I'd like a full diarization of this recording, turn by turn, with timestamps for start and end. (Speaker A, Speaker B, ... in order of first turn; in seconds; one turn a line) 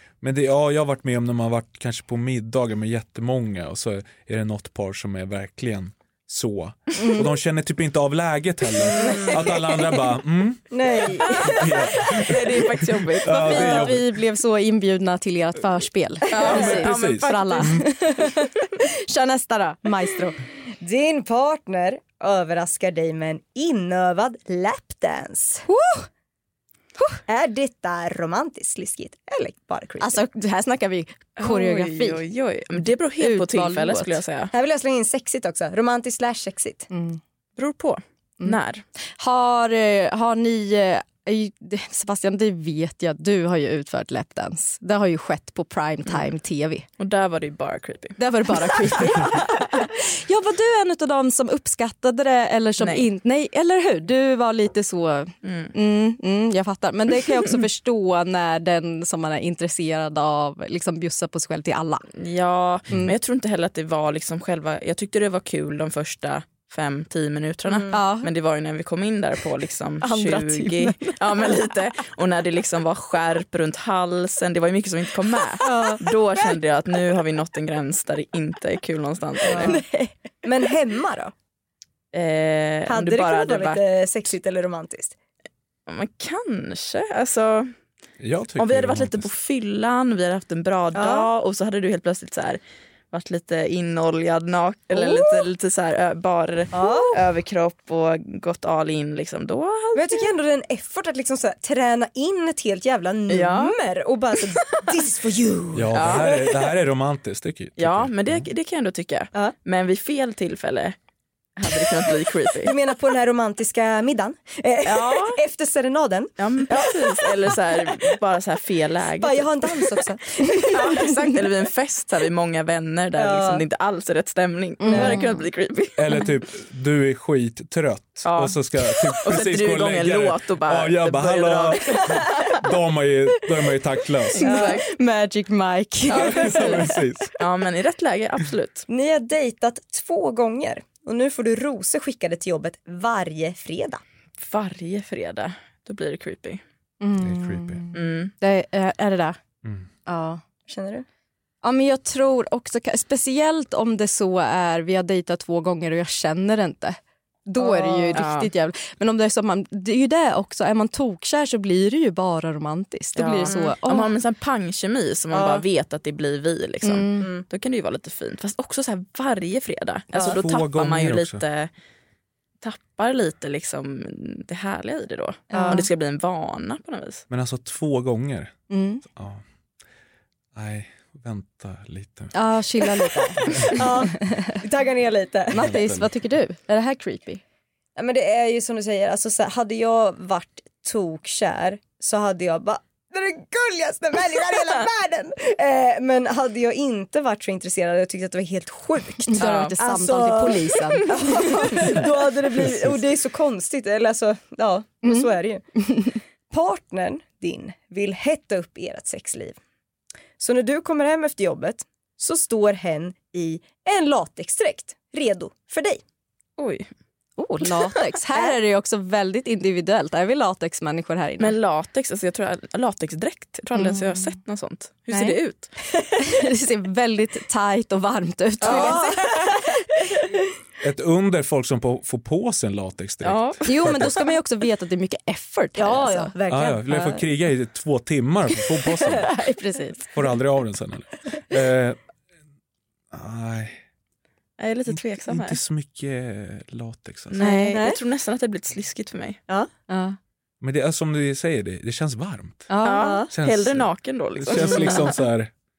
Speaker A: 0.2-14.1
Speaker B: 7.0-7.2
Speaker C: 8.9-9.6
Speaker D: 9.0-9.5
Speaker C: 10.7-11.7
Speaker D: 11.3-14.0
Speaker B: 13.3-20.4
Speaker D: 16.3-17.8
Speaker A: 16.4-17.9
Speaker C: 20.8-25.6
Speaker B: 25.7-26.1
Speaker C: 27.3-30.2
Speaker B: 30.0-32.2
Speaker D: 31.4-34.5
Speaker B: 33.2-34.2
Speaker C: 34.5-36.9
Speaker B: 36.9-37.2
Speaker D: 37.5-38.8
Speaker B: 39.2-46.9
Speaker D: 47.0-49.4
Speaker B: 48.2-62.0
Speaker D: 52.8-53.1
Speaker D: 55.4-55.7
Speaker D: 62.1-79.8
Speaker C: 67.7-68.0
Speaker B: 67.9-68.3
Speaker B: 70.0-71.7
Speaker C: 75.6-76.0
Speaker C: 79.5-81.3
Speaker D: 82.1-83.8
Speaker C: 82.9-85.2
Speaker D: 85.9-87.7
Speaker A: 88.2-89.3
Speaker D: 88.6-92.6
Speaker C: 90.9-91.3
Speaker D: 93.1-100.3
Speaker C: 94.9-95.5
Speaker C: 96.7-97.2
Speaker C: 99.9-106.4
Speaker D: 103.3-103.8
Speaker A: 105.7-108.5
Speaker D: 105.9-106.7
Speaker D: 107.8-111.0
Speaker D: 111.6-112.8
Speaker C: 112.6-117.6
Speaker D: 114.8-115.4
Speaker D: 116.4-120.0
Speaker C: 119.2-121.3
Speaker D: 120.7-126.3
Speaker C: 123.2-123.6
Speaker B: 124.8-125.4
Speaker C: 124.9-125.2
Speaker A: 126.0-134.6
Speaker D: 128.2-132.5
Speaker D: 134.3-134.8
Speaker C: 134.4-134.8
Speaker B: 134.4-136.8
Speaker D: 136.1-138.9
Speaker A: 136.1-137.3
Speaker C: 138.9-144.0
Speaker D: 144.4-146.6
Speaker B: 147.0-149.4
Speaker A: 147.2-147.8
Speaker D: 147.9-148.3
Speaker B: 150.1-150.4
Speaker C: 150.7-151.0
Speaker B: 151.6-164.1
Speaker C: 157.6-158.2
Speaker D: 158.1-158.5
Speaker D: 163.2-171.7
Speaker C: 165.3-165.6
Speaker B: 166.8-167.3
Speaker A: 170.2-171.4
Speaker D: 172.6-177.2
Speaker C: 175.5-175.8
Speaker B: 175.5-175.8
Speaker A: 177.3-179.4
Speaker B: 178.7-179.0
Speaker A: 180.5-182.9
Speaker B: 182.3-184.5
Speaker A: 183.4-183.8
Speaker C: 183.7-185.8
Speaker B: 185.5-187.4
Speaker A: 185.5-186.1
Speaker C: 187.9-209.6
Speaker B: 199.3-201.9
Speaker D: 199.4-199.7
Speaker C: 210.4-216.0
Speaker D: 216.6-216.9
Speaker B: 217.4-221.6
Speaker D: 221.4-225.7
Speaker B: 223.7-224.3
Speaker B: 225.1-225.4
Speaker B: 226.2-229.6
Speaker D: 228.6-229.1
Speaker C: 228.6-229.6
Speaker A: 230.8-234.2
Speaker D: 233.2-233.9
Speaker B: 233.6-236.3
Speaker C: 235.8-237.2
Speaker A: 236.5-239.5
Speaker B: 239.2-240.1
Speaker A: 240.1-242.0
Speaker A: 243.1-243.8
Speaker D: 244.6-245.6
Speaker A: 244.9-247.4
Speaker D: 247.3-249.4
Speaker B: 247.4-247.8
Speaker C: 247.7-248.0
Speaker B: 249.9-250.2
Speaker A: 250.6-252.7
Speaker B: 252.7-253.2
Speaker D: 252.8-255.1
Speaker C: 253.0-253.3
Speaker A: 253.3-255.5
Speaker B: 254.6-255.1